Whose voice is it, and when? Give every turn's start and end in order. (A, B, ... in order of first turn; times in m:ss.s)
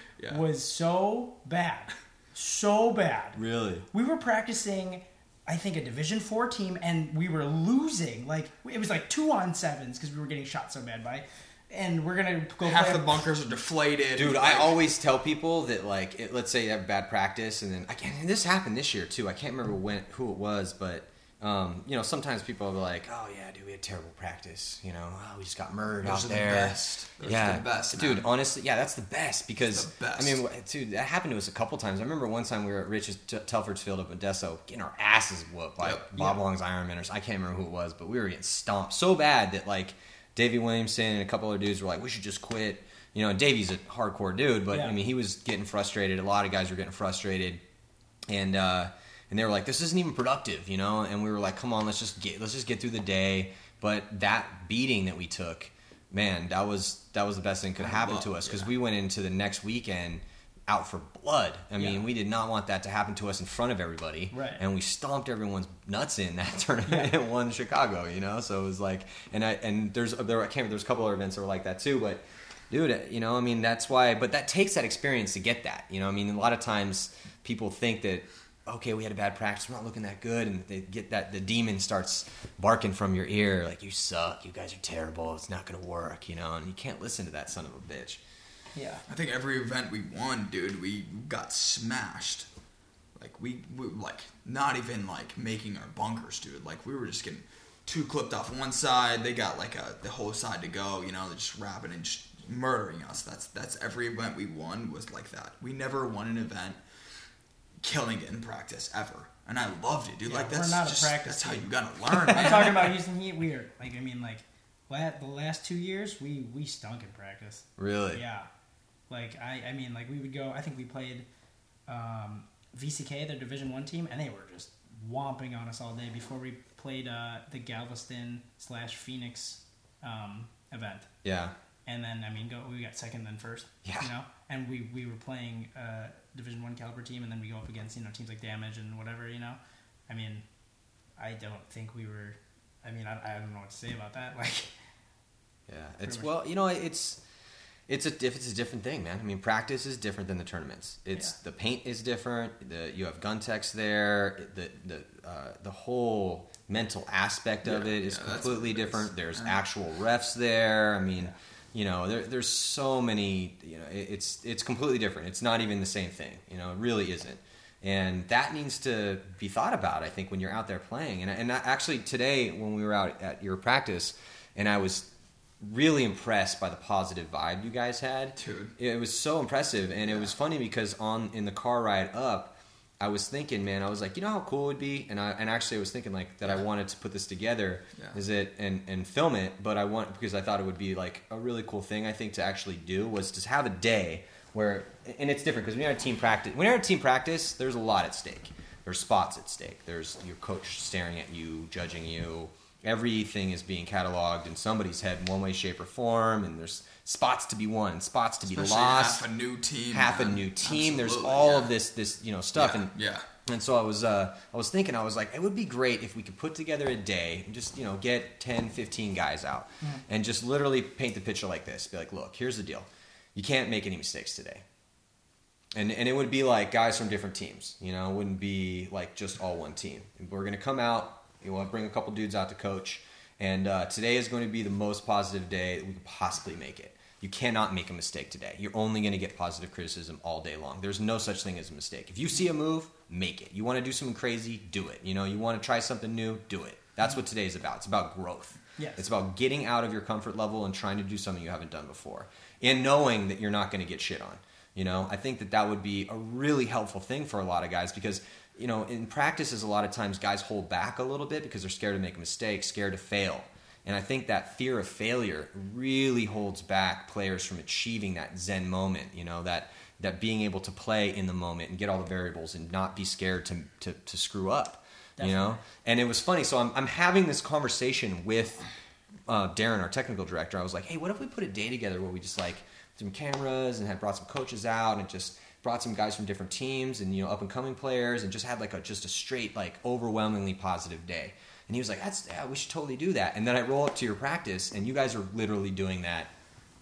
0:00.2-0:00.4 A
0:00.3-0:13.2 B
0:03.4-0:03.8 C
0:12.6-0:14.8 A
0:14.2-0:47.6 C
0:26.0-0:28.3 A
0:29.6-0:30.4 A
0:48.3-1:28.2 C
0:57.8-0:58.7 A
1:01.8-1:02.0 B
1:04.3-1:04.6 B
1:28.7-1:29.0 B
1:29.1-1:32.5 A
1:33.2-1:46.8 A
1:47.8-1:53.0 A
1:50.2-1:58.5 B
1:57.8-1:58.2 C
1:59.1-2:01.2 B
2:01.9-2:11.1 B
2:11.2-2:11.5 C
2:11.8-2:20.4 B
2:13.8-2:14.1 C
2:21.2-2:24.7 B
2:25.7-2:27.2 C
2:27.9-2:55.1 C
2:37.6-2:39.6 A
2:55.6-3:29.2 C
2:58.4-2:58.7 A
3:00.0-3:00.3 A
3:28.4-3:31.7 A
3:29.9-3:32.9 C
3:32.5-3:33.2 A
3:33.4-3:44.6 C
3:45.7-4:38.7 C
4:08.8-4:09.1 B
4:35.2-4:35.6 B
4:39.3-4:56.3 C